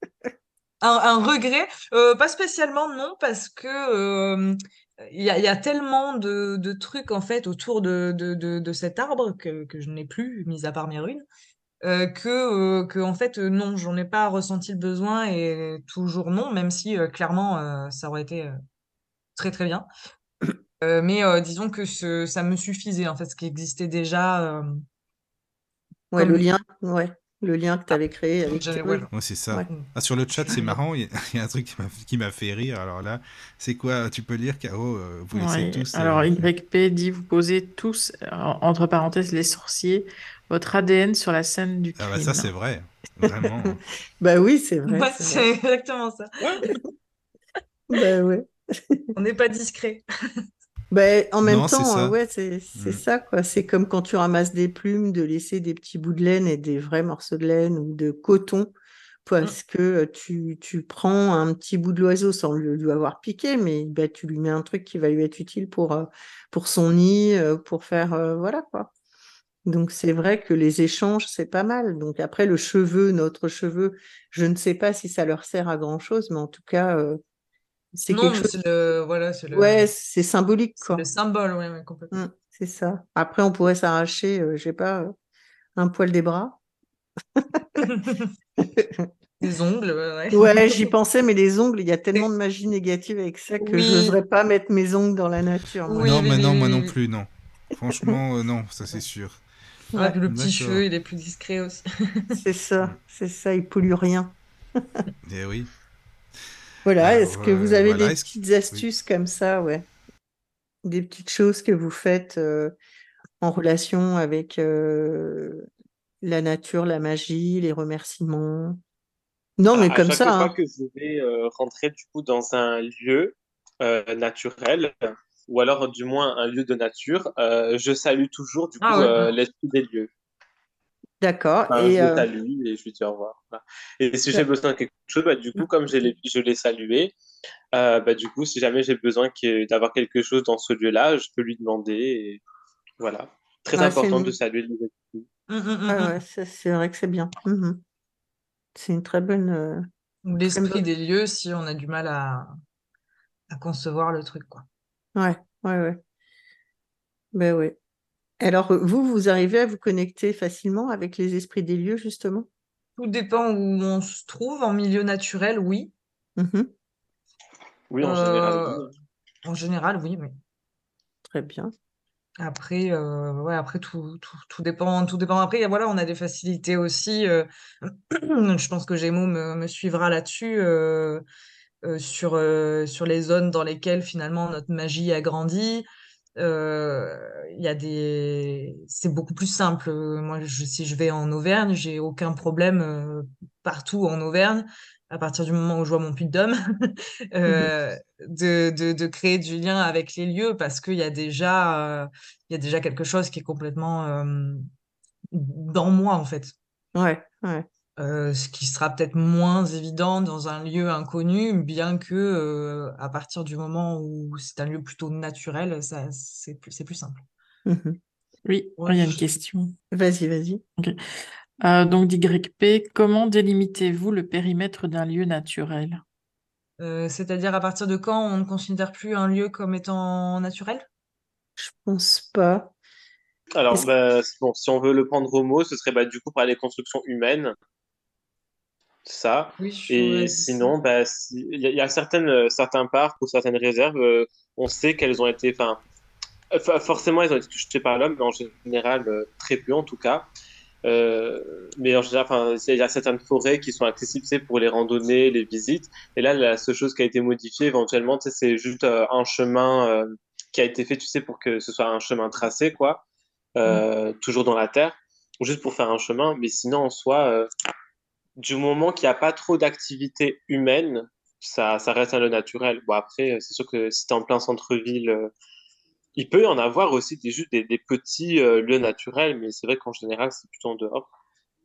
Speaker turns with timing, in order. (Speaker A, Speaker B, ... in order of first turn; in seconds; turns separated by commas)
Speaker A: 0.8-11.2, Speaker A: 11.8-18.6, Speaker A: 19.4-19.9, Speaker A: 20.8-24.8, Speaker B: 26.1-29.6, Speaker A: 26.1-26.4, Speaker A: 27.9-29.1, Speaker C: 29.1-36.5, Speaker A: 29.7-30.8, Speaker D: 35.3-42.5, Speaker C: 42.0-43.8, Speaker B: 43.2-45.5, Speaker A: 44.9-46.8, Speaker B: 47.9-49.1, Speaker A: 49.1-50.0, Speaker B: 50.9-58.7, Speaker C: 51.4-52.1, Speaker C: 52.8-53.0, Speaker B: 59.2-68.9, Speaker B: 69.7-77.2, Speaker B: 77.9-78.5, Speaker A: 78.1-79.9, Speaker B: 79.5-81.0, Speaker A: 80.8-82.2, Speaker B: 82.1-85.1, Speaker B: 85.8-86.6, Speaker B: 87.4-87.8, Speaker A: 87.8-88.3, Speaker B: 88.6-89.1, Speaker A: 89.4-90.8, Speaker B: 90.3-96.1, Speaker A: 93.6-94.2, Speaker A: 95.8-96.9, Speaker C: 96.0-99.4, Speaker A: 99.9-102.4, Speaker C: 100.3-100.8, Speaker B: 102.3-105.1, Speaker C: 105.2-105.7, Speaker B: 106.8-109.8, Speaker C: 107.0-108.8, Speaker B: 110.8-112.7, Speaker B: 113.4-115.7, Speaker B: 116.2-118.8, Speaker B: 119.6-120.5, Speaker E: 119.7-130.1, Speaker A: 128.8-129.3, Speaker B: 131.2-132.3, Speaker E: 131.7-137.1, Speaker E: 137.7-142.4, Speaker E: 143.0-145.3, Speaker B: 143.8-144.3, Speaker A: 145.5-146.1, Speaker B: 145.9-147.8, Speaker B: 148.7-149.8, Speaker A: 150.2-152.5, Speaker B: 150.5-150.8, Speaker A: 153.5-154.6, Speaker B: 155.2-156.0, Speaker B: 157.3-157.7, Speaker B: 158.4-162.5, Speaker A: 163.0-165.9, Speaker B: 166.4-166.7, Speaker E: 167.9-168.9, Speaker A: 168.0-168.9, Speaker A: 169.4-170.3, Speaker B: 171.3-171.7, Speaker A: 172.4-181.2, Speaker A: 181.8-185.8, Speaker A: 186.4-204.7, Speaker A: 205.3-206.5, Speaker B: 206.9-207.7, Speaker A: 208.0-217.2, Speaker B: 217.7-218.0, Speaker D: 218.4-219.7, Speaker A: 218.8-219.2, Speaker B: 219.9-220.6, Speaker D: 221.6-226.0, Speaker A: 226.8-230.8, Speaker B: 231.6-232.7, Speaker E: 233.6-237.5, Speaker E: 239.1-245.8, Speaker A: 239.6-240.7, Speaker E: 246.5-250.3, Speaker E: 250.8-263.0, Speaker E: 263.6-267.5, Speaker E: 268.4-275.3, Speaker E: 276.1-281.1